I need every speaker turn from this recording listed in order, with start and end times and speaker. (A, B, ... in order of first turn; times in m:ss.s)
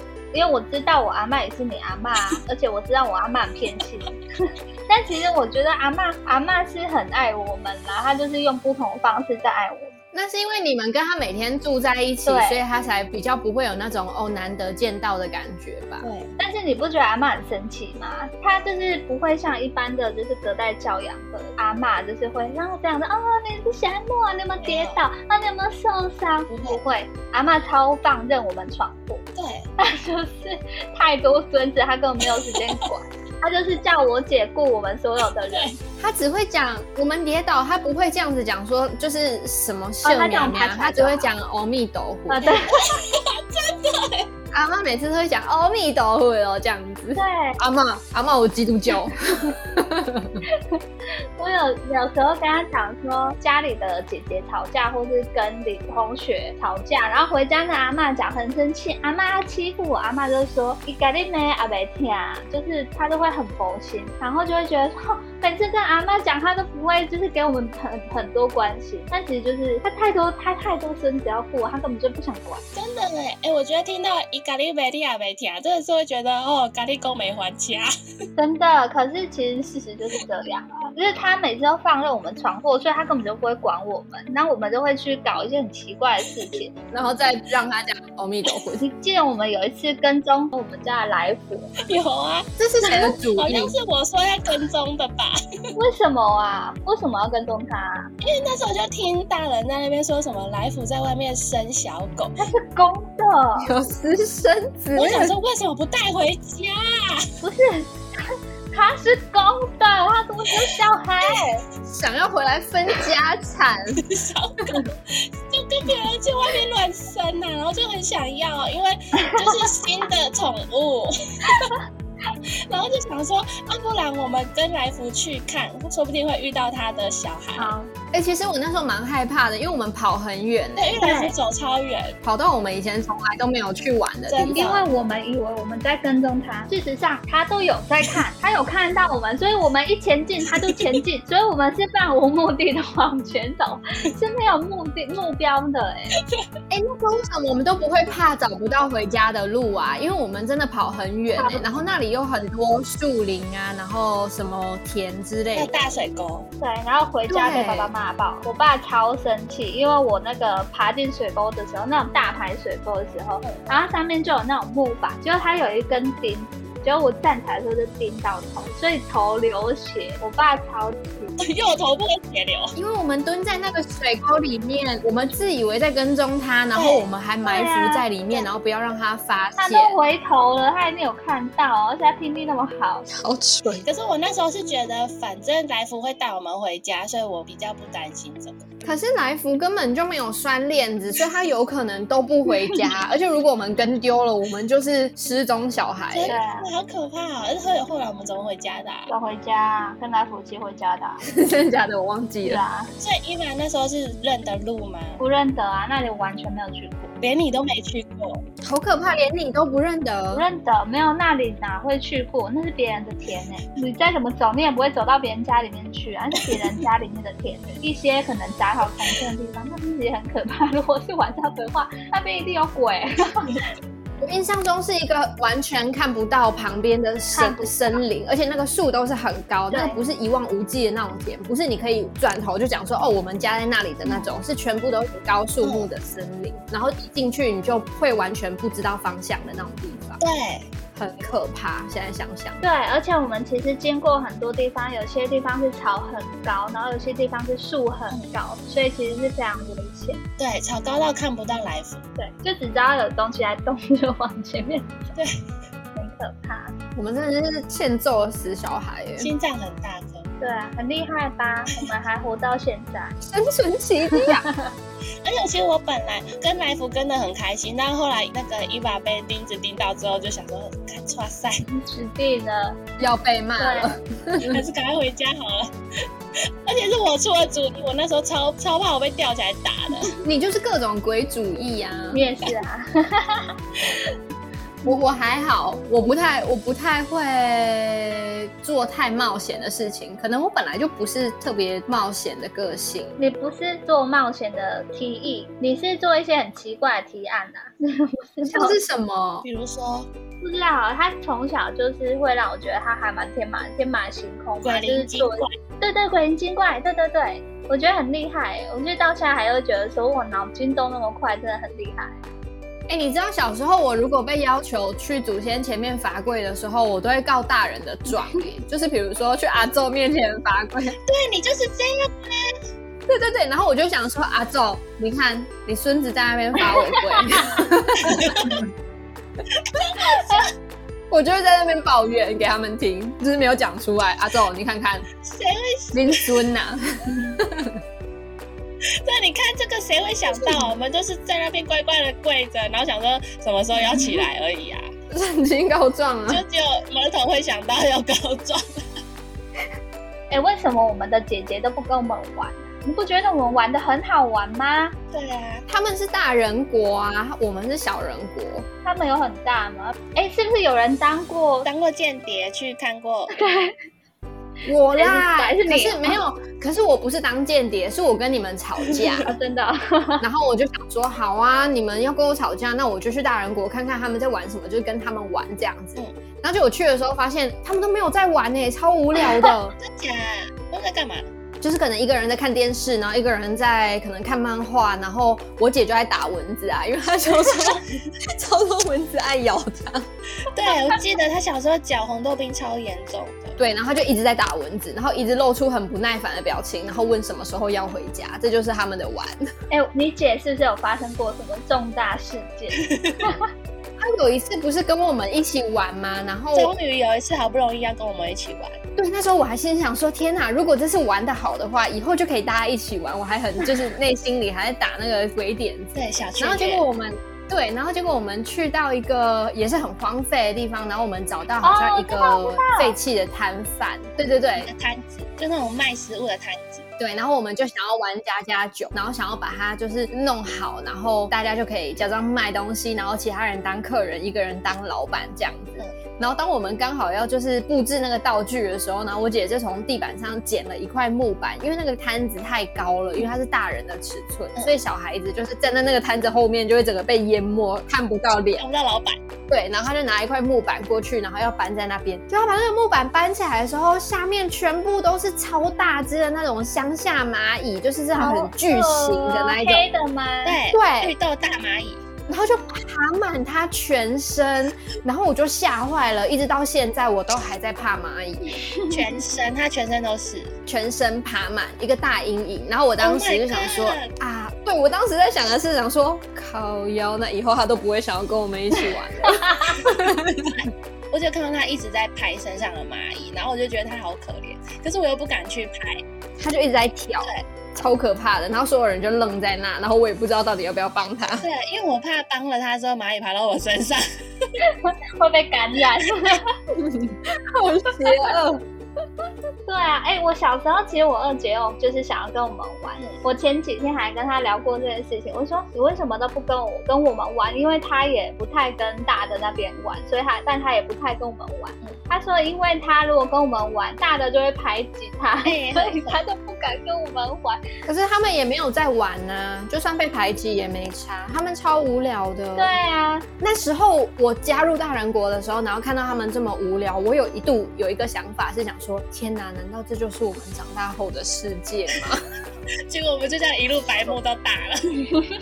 0:00.3-0:10.0 A
0:10.1-0:16.1 B
0:12.2-0:12.6 A
0:16.0-0:16.4 C
0:16.4-0:29.2 A
0:24.6-0:25.0 C
0:26.5-0:26.8 C
0:29.4-0:29.7 C
0:29.8-0:35.8 A
0:36.0-0:42.6 B
0:40.0-0:41.3 A
0:42.3-0:42.8 A
0:42.4-0:44.3 C
0:44.5-0:50.4 B
0:47.2-0:47.6 A
0:50.5-0:50.8 A
0:51.4-1:12.6 A
1:12.7-1:17.9 C
1:18.4-1:26.7 A
1:26.9-1:28.8 B
1:28.8-1:31.8 A
1:31.8-1:35.4 C
1:32.6-1:33.7 B
1:35.7-1:38.1 A
1:38.2-1:42.4 C
1:42.4-1:43.7 A
1:43.6-1:45.3 B
1:44.9-1:47.3 C
1:47.4-1:51.6 A
1:51.8-1:54.0 B
1:54.0-2:01.8 C
2:02.7-2:07.7 C
2:07.6-2:07.9 A
2:08.1-2:11.0 B
2:10.8-2:12.2 C
2:11.0-2:11.3 A
2:12.2-2:14.6 B
2:14.3-2:14.8 C
2:14.5-2:26.1 A
2:26.7-2:35.7 B
2:31.4-2:31.7 A
2:35.5-2:36.5 C
2:36.6-2:51.4 A
2:37.3-2:37.9 B
2:51.4-2:52.7 C
2:52.8-3:00.0 B
2:56.7-2:57.0 C
2:57.4-2:58.4 A
2:59.6-3:03.1 A
3:03.1-3:03.8 B
3:03.8-3:08.7 C
3:08.8-3:16.3 B
3:16.1-3:19.1 C
3:16.3-3:16.7 A
3:19.1-3:21.2 A
3:21.3-3:22.6 B
3:22.4-3:22.9 A
3:23.0-3:25.2 C
3:25.2-3:27.1 A
3:27.2-3:28.4 C
3:28.6-3:30.4 B
3:30.3-3:43.6 A
3:44.2-4:00.2 B
3:47.3-3:48.0 A
3:49.7-3:50.0 A
3:55.6-3:55.9 C
4:00.2-4:00.7 C
4:00.9-4:02.6 B
4:02.6-4:10.2 A
4:10.4-4:12.0 C
4:12.2-4:15.2 A
4:15.9-4:16.7 A
4:17.0-4:19.3 B
4:19.2-4:20.3 C
4:20.4-4:23.2 A
4:23.2-4:24.4 B
4:24.3-4:24.7 A
4:25.2-4:31.6 C
4:31.7-4:32.8 A
4:33.0-4:34.6 B
4:33.6-4:34.0 A
4:34.4-4:35.7 C
4:36.6-4:40.1 C
4:40.2-4:42.2 B
4:42.1-4:43.5 A
4:44.8-4:53.2 B
4:53.2-4:58.8 A
4:58.5-4:59.4 B
4:59.4-5:00.1 C
5:00.4-5:12.2 A
5:04.6-5:05.5 C
5:12.9-5:21.0 B
5:21.0-5:22.6 C
5:23.1-5:28.6 B
5:26.7-5:27.5 A
5:28.1-5:28.6 C
5:29.7-5:30.4 C
5:31.1-5:35.0 B
5:35.2-5:36.4 C
5:35.9-5:37.8 B
5:39.0-5:44.9 C
5:45.1-5:46.4 B
5:46.3-5:48.6 C
5:50.3-5:54.9 A
5:55.1-5:55.6 C
5:55.7-5:58.6 B
5:58.8-6:01.7 A
6:01.6-6:03.4 C
6:03.3-6:03.8 A
6:04.6-6:09.3 B
6:04.9-6:06.2 A
6:09.2-6:10.2 A
6:10.2-6:19.7 B
6:19.8-6:21.3 C
6:21.6-6:30.1 B
6:30.4-6:33.6 C
6:33.6-6:39.5 B
6:39.7-6:43.5 A
6:42.8-6:43.2 C
6:44.0-6:46.7 B
6:46.5-6:48.8 C
6:49.0-7:04.7 B
6:55.9-6:56.8 C
7:01.6-7:02.9 A
7:04.6-7:06.8 C
7:07.0-7:28.6 B
7:28.6-7:29.2 C
7:29.5-7:39.9 B
7:38.2-7:40.6 A
7:40.4-7:42.0 C
7:40.7-7:41.1 B
7:42.3-7:48.6 B
7:48.9-7:50.5 C
7:50.7-8:00.7 B
7:53.0-7:54.1 C
8:01.1-8:06.0 C
8:06.4-8:11.5 B
8:11.4-8:14.5 C
8:14.6-8:16.5 A
8:16.7-8:18.6 B
8:19.7-8:37.6 A
8:35.4-8:36.2 C
8:37.8-8:42.7 B
8:42.6-8:43.2 A
8:43.4-8:52.2 B
8:52.9-8:55.1 C